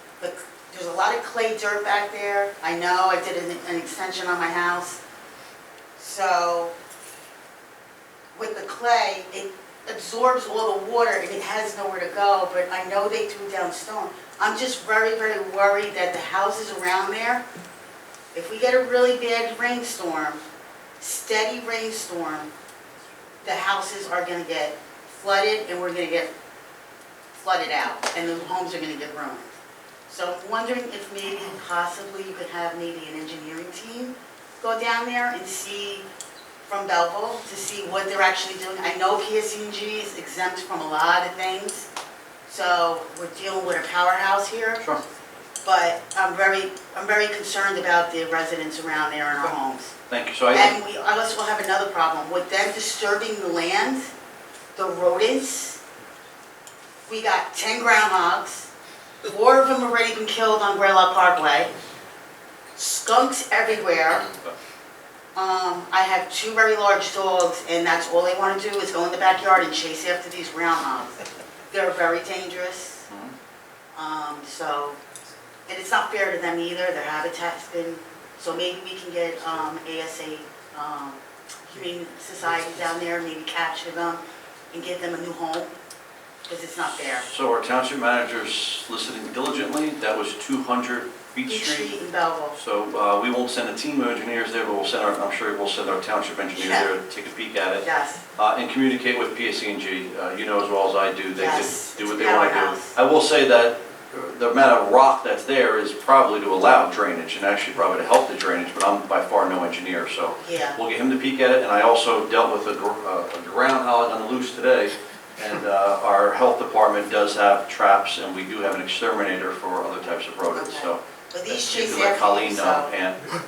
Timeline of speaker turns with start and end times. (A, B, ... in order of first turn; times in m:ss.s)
0:00.2-0:05.0 A
0:06.0-0:06.7 A
0:08.3-0:17.4 A
0:18.3-0:20.4 A
0:21.0-0:22.5 A
0:23.4-0:26.3 A
0:27.4-0:29.5 A
0:30.1-0:36.1 A
0:36.6-0:41.9 A
0:42.5-0:44.9 A
0:45.6-0:49.9 A
0:50.1-0:50.8 B
0:50.5-0:54.1 A
0:54.8-0:55.8 A
0:57.1-0:58.7 A
0:59.3-1:01.7 A
1:02.8-1:04.2 A
1:04.1-1:04.5 B
1:05.4-1:11.1 A
1:11.7-1:13.1 A
1:13.1-1:13.3 B
1:14.0-1:15.0 A
1:15.7-1:21.2 A
1:21.7-1:25.7 A
1:26.5-1:27.3 A
1:27.3-1:32.0 B
1:31.5-1:32.6 A
1:32.6-1:37.9 B
1:36.5-1:36.9 A
1:37.8-1:38.2 A
1:38.4-2:01.0 B
1:41.4-1:43.0 A
1:50.4-1:50.8 A
2:00.5-2:02.9 A
2:01.6-2:03.2 B